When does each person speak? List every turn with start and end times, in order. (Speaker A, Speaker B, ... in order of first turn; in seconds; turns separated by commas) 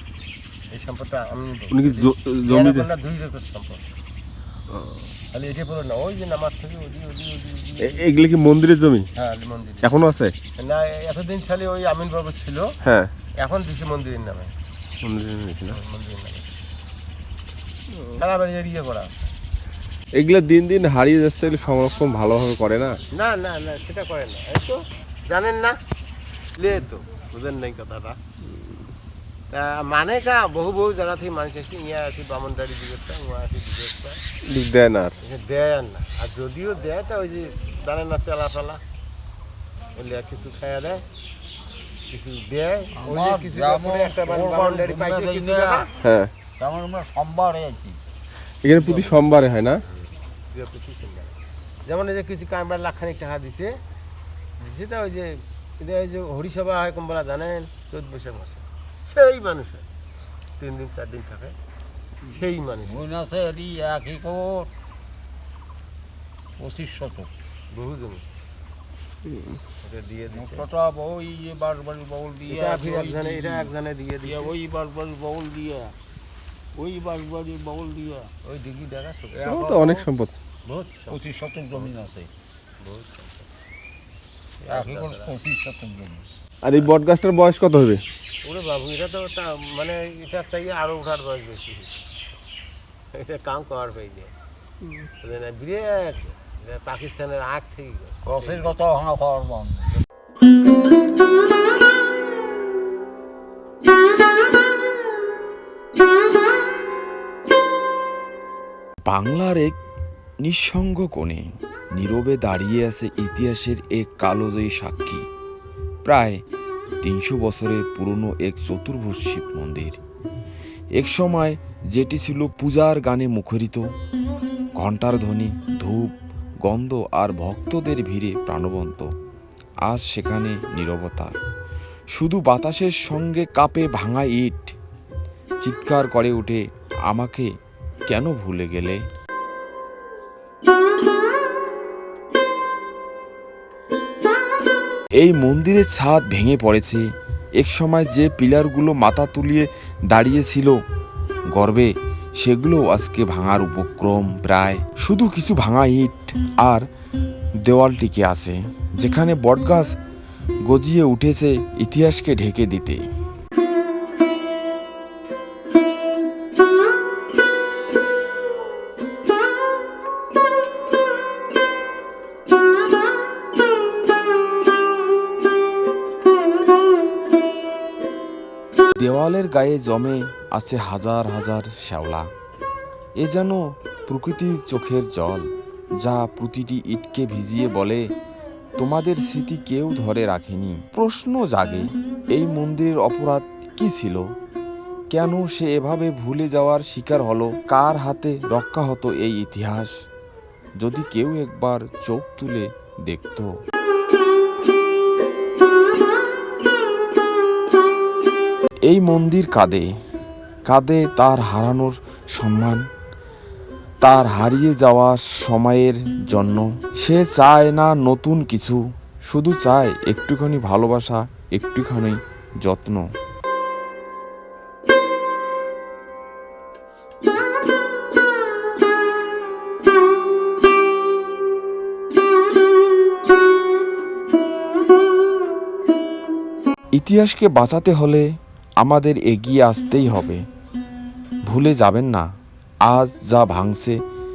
Speaker A: 0.7-3.9, Speaker B: 1.7-2.9, Speaker A: 5.3-8.1, Speaker B: 7.8-9.1, Speaker A: 9.2-12.7, Speaker B: 9.8-10.3, Speaker B: 12.8-13.1, Speaker A: 13.4-14.5, Speaker B: 15.0-15.8, Speaker A: 15.7-16.7, Speaker A: 18.1-19.3, Speaker B: 20.1-23.0, Speaker A: 23.1-25.8, Speaker A: 26.6-28.2, Speaker A: 29.5-34.2, Speaker B: 34.5-35.1, Speaker A: 35.2-38.8, Speaker A: 40.0-41.0, Speaker A: 42.1-45.9, Speaker C: 43.0-45.9, Speaker B: 46.0-46.3, Speaker C: 46.6-48.0, Speaker B: 48.6-49.8, Speaker C: 48.8-49.2, Speaker A: 50.5-53.7, Speaker A: 54.6-59.9, Speaker A: 60.6-61.5, Speaker A: 62.3-63.1, Speaker C: 62.9-64.7, Speaker C: 66.6-67.3, Speaker A: 67.7-68.2, Speaker A: 69.8-70.7, Speaker C: 70.3-73.7, Speaker A: 72.5-74.5, Speaker C: 74.2-75.9, Speaker C: 76.7-80.1, Speaker B: 79.5-80.3, Speaker A: 80.7-81.2, Speaker C: 80.9-82.3, Speaker A: 82.8-83.5, Speaker A: 84.6-85.3, Speaker C: 84.7-86.2, Speaker B: 86.6-88.0, Speaker A: 88.4-92.0, Speaker A: 93.1-94.3, Speaker A: 95.2-98.8, Speaker C: 98.2-99.9, Speaker D: 109.0-109.8, Speaker D: 110.4-115.2, Speaker D: 116.0-116.4, Speaker D: 117.0-120.0, Speaker D: 121.0-123.9, Speaker D: 124.8-129.1, Speaker D: 129.8-131.3, Speaker D: 132.1-134.7, Speaker D: 135.6-137.5, Speaker D: 138.1-139.0, Speaker D: 145.2-147.1, Speaker D: 147.6-150.8, Speaker D: 151.5-156.9, Speaker D: 157.6-159.9, Speaker D: 160.7-163.0, Speaker D: 179.0-182.3, Speaker D: 183.2-188.0, Speaker D: 188.8-194.3, Speaker D: 195.1-199.9, Speaker D: 200.8-203.5, Speaker D: 208.8-209.9, Speaker D: 210.7-212.8, Speaker D: 214.0-223.1, Speaker D: 236.9-238.3, Speaker D: 238.8-240.4, Speaker D: 241.4-242.3, Speaker D: 242.8-244.0